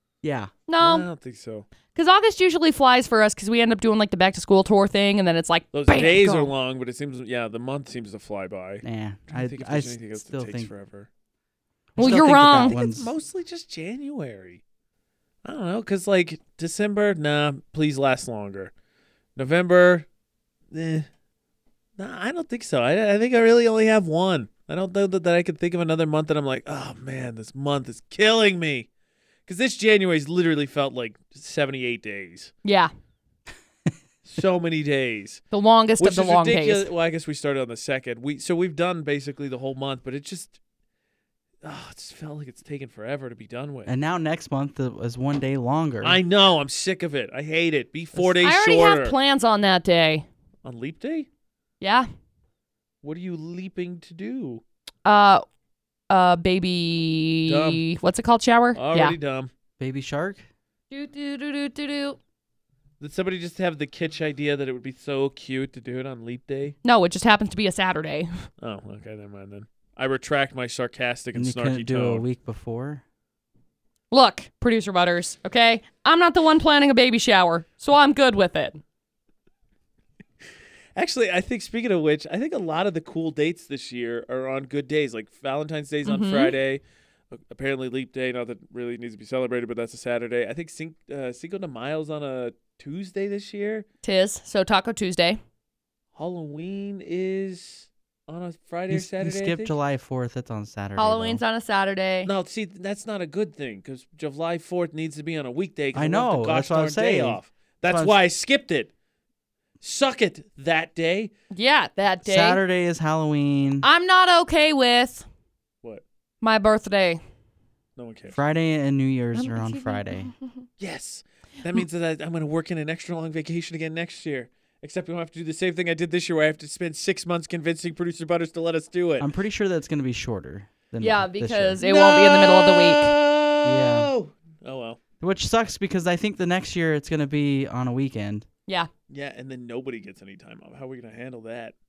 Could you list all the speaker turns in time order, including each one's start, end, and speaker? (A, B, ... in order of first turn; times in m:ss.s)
0:00.2-0:00.5 A
0:00.7-0:01.1 B
0:00.8-0:01.7 C
0:02.0-0:06.5 B
0:05.7-0:11.1 C
0:08.8-0:10.7 A
0:12.0-0:13.1 A
0:12.0-0:12.8 B
0:12.0-0:14.6 C
0:15.4-0:18.7 C
0:19.4-0:20.1 C
0:20.7-0:21.1 C
0:22.0-0:28.9 C
0:29.5-0:32.5 C
0:32.6-0:32.9 B
0:34.2-0:35.4 C
0:35.5-0:36.9 B
0:36.0-0:40.6 C
0:41.6-0:43.9 C
0:43.9-0:46.2 A
0:46.0-0:49.2 C
0:48.4-0:50.3 B
0:50.6-0:51.3 C
0:51.8-0:52.1 B
0:53.0-0:54.6 C
0:55.0-0:55.4 B
0:56.1-0:59.2 B
0:57.5-0:57.8 C
0:58.8-0:59.5 C
0:59.8-1:00.5 A
1:00.9-1:02.2 B
1:03.0-1:06.8 C
1:06.8-1:08.3 B
1:08.6-1:12.2 C
1:11.4-1:13.0 A
1:14.1-1:18.8 B
1:21.0-1:33.9 C
1:26.0-1:26.5 B
1:34.0-1:35.4 B
1:36.2-1:39.8 C
1:38.9-1:41.4 A
1:41.0-1:42.3 B
1:42.2-1:48.9 C
1:45.9-1:48.2 A
1:49.8-1:51.3 C
1:51.5-1:52.6 B
1:52.2-1:53.9 A
1:53.8-1:55.3 B
1:56.4-1:57.2 B
1:58.0-1:58.4 C
1:58.3-2:00.3 A
1:59.4-2:00.6 B
2:00.8-2:09.3 C
2:09.2-2:11.8 A
2:11.0-2:13.1 B
2:11.8-2:15.0 C
2:13.6-2:14.1 A
2:15.2-2:18.5 A
2:19.1-2:21.8 C